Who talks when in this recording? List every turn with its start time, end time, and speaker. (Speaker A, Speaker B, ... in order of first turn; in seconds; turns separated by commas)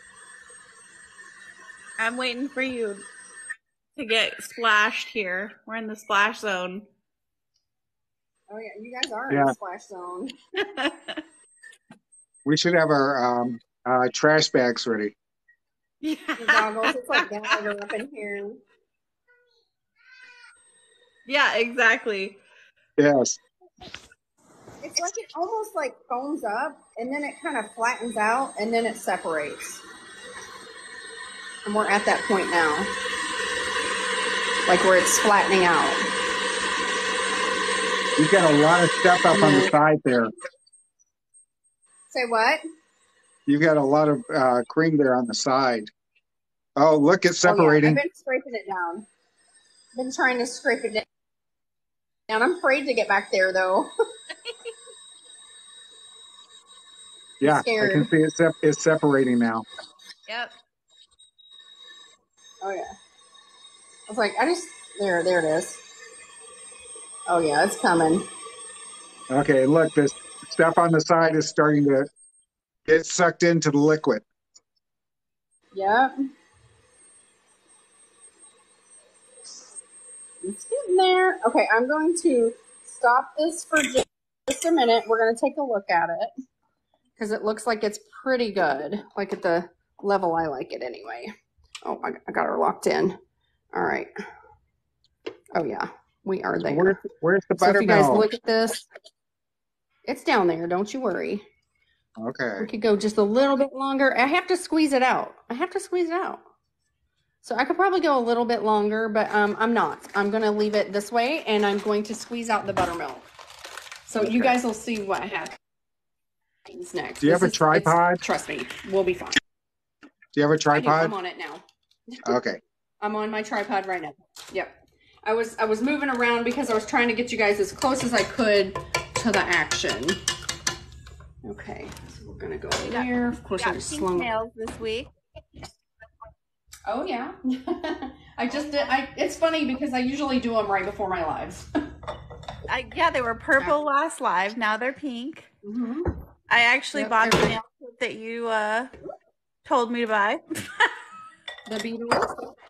Speaker A: 2.0-3.0, Speaker A: 4.0-6.9, Speaker B: 8.5-10.3, Speaker C: 9.3-9.5, Speaker A: 10.7-11.0, Speaker C: 12.4-15.1, Speaker A: 16.0-17.6, Speaker B: 16.4-18.6, Speaker A: 21.2-22.4, Speaker C: 23.0-23.4, Speaker B: 24.8-29.8, Speaker B: 31.6-32.9, Speaker B: 34.7-36.0, Speaker C: 38.2-40.3, Speaker B: 39.3-39.7, Speaker B: 42.1-42.6, Speaker C: 43.5-45.9, Speaker C: 46.8-48.0, Speaker B: 47.4-49.1, Speaker B: 49.9-51.0, Speaker B: 52.3-53.9, Speaker B: 57.4-58.1, Speaker C: 57.4-59.6, Speaker B: 62.6-62.9, Speaker B: 64.1-65.8, Speaker B: 67.3-68.3, Speaker C: 69.3-72.1, Speaker C: 72.8-74.2, Speaker B: 75.7-76.1, Speaker B: 80.4-86.3, Speaker B: 87.2-91.3, Speaker B: 91.8-93.2, Speaker B: 93.7-94.1, Speaker B: 95.5-97.0, Speaker C: 96.7-98.2, Speaker B: 97.6-98.9, Speaker B: 100.0-101.4, Speaker C: 102.2-102.7, Speaker B: 102.6-106.4, Speaker B: 107.4-113.2, Speaker B: 114.0-115.6, Speaker C: 114.2-114.5, Speaker B: 116.7-119.4, Speaker C: 117.2-118.2, Speaker C: 120.3-121.1, Speaker B: 120.7-122.4, Speaker C: 122.2-122.6, Speaker B: 123.0-130.2, Speaker B: 131.4-134.3, Speaker A: 132.8-135.1, Speaker B: 136.9-141.7, Speaker A: 138.6-138.9, Speaker A: 142.7-145.5, Speaker B: 145.6-146.1, Speaker A: 146.5-148.9, Speaker B: 146.9-147.6, Speaker A: 149.6-150.9, Speaker B: 151.7-152.3